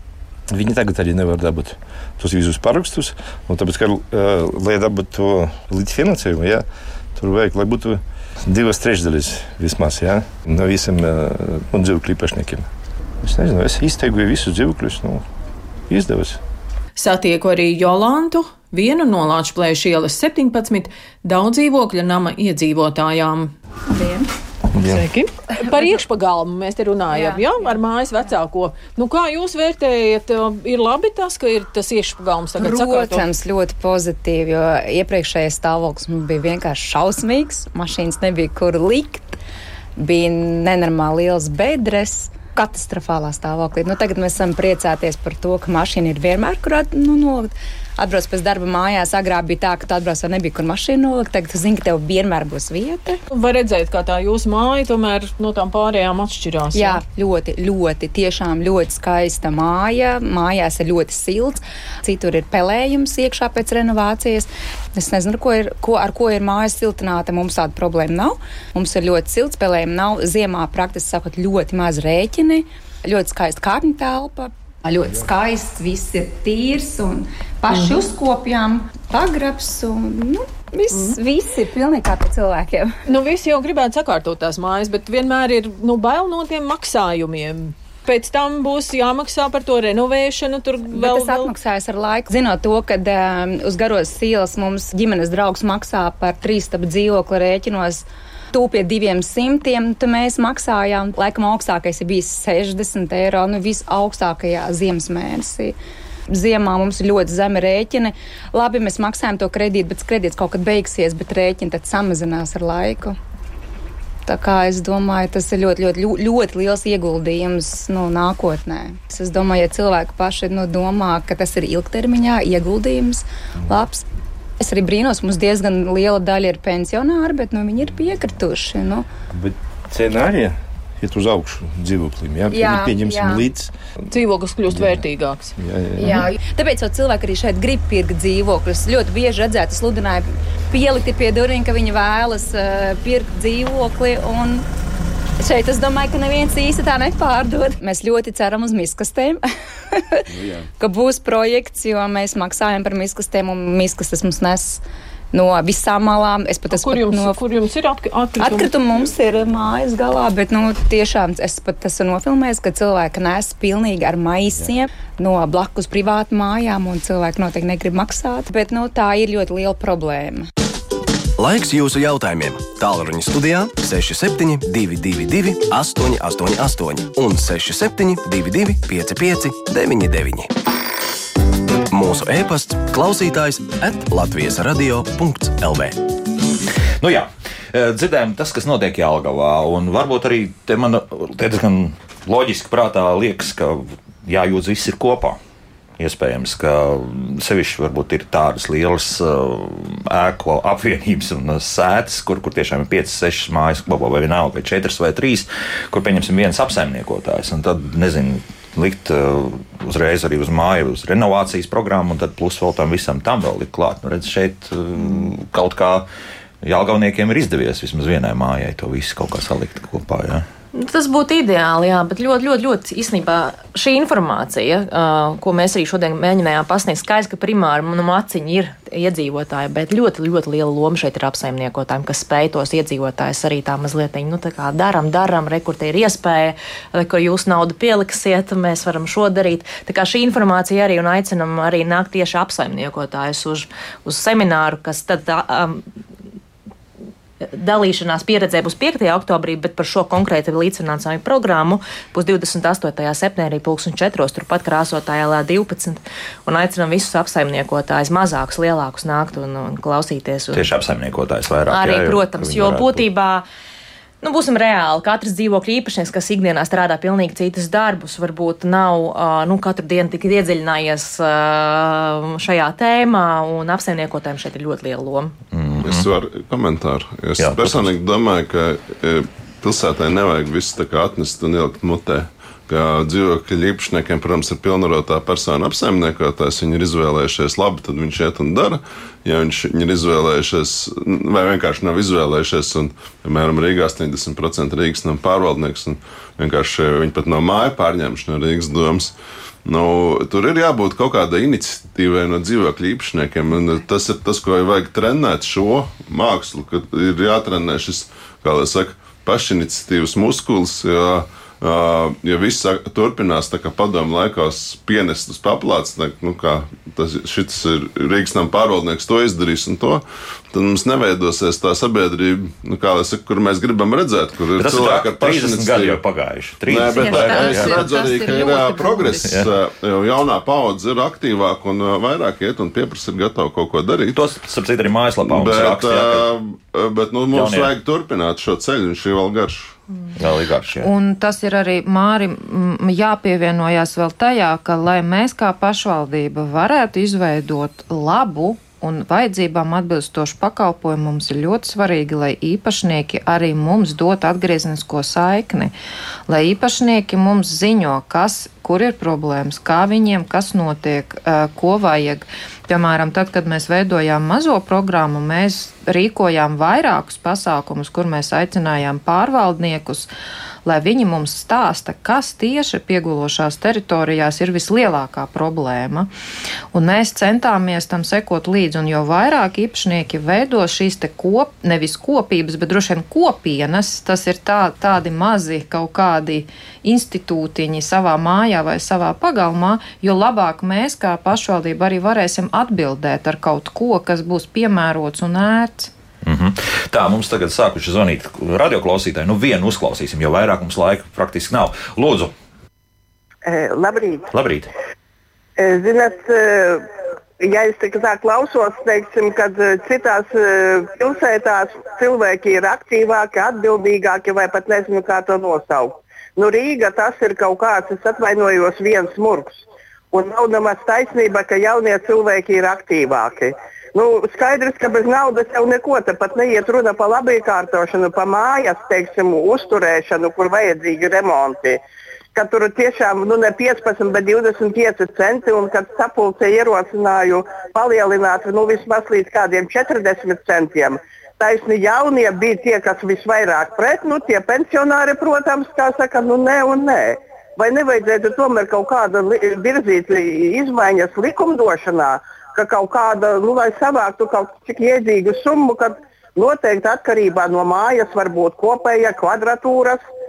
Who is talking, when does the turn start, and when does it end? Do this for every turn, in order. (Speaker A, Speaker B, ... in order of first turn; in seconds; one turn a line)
Speaker A: 0.5-6.7
Speaker A: 7.2-12.7
Speaker A: 13.2-15.2
Speaker A: 15.9-16.4
Speaker B: 17.0-23.5
Speaker C: 23.9-24.3
Speaker A: 24.7-25.1
Speaker B: 24.8-33.3
Speaker C: 27.1-27.5
Speaker C: 32.6-39.4
Speaker C: 40.0-53.2
Speaker B: 53.3-57.0
Speaker C: 56.7-83.0
Speaker B: 77.7-78.0
Speaker B: 80.9-81.2
Speaker B: 83.1-91.5
Speaker C: 90.9-105.8
Speaker C: 106.3-113.2
Speaker C: 114.3-124.0
Speaker C: 124.6-129.1
Speaker A: 129.3-133.7
Speaker C: 132.5-133.5
Speaker B: 134.1-135.6
Speaker A: 134.7-135.1
Speaker A: 135.6-136.3
Speaker C: 136.0-144.7
Speaker C: 145.4-149.4
Speaker C: 150.0-154.8
Speaker C: 155.3-157.4
Speaker B: 156.7-159.0
Speaker C: 158.4-170.5
Speaker D: 171.4-180.5
Speaker D: 181.9-186.0
Speaker E: 187.0-195.4
Speaker E: 196.0-216.1
Speaker E: 216.6-220.5
Speaker F: 220.7-245.8
Speaker F: 247.4-260.7
Speaker E: 260.5-263.1
Speaker F: 261.7-263.4
Speaker F: 264.2-275.4
Speaker E: 275.5-276.1
Speaker G: 275.8-299.1
Speaker E: 277.4-277.9
Speaker G: 299.6-326.0
Speaker E: 324.6-327.9
Speaker G: 326.7-334.2
Speaker F: 327.0-329.3
Speaker E: 329.2-329.5
Speaker E: 334.1-336.3
Speaker G: 335.2-339.8
Speaker E: 337.3-337.7
Speaker E: 340.2-340.9
Speaker H: 340.8-355.7
Speaker H: 356.3-370.1
Speaker H: 370.6-376.1
Speaker H: 376.7-395.9
Speaker E: 396.2-402.3
Speaker I: 403.4-404.3
Speaker E: 404.3-404.7
Speaker I: 405.6-406.9
Speaker I: 407.4-419.5
Speaker I: 420.1-431.8
Speaker I: 432.4-460.0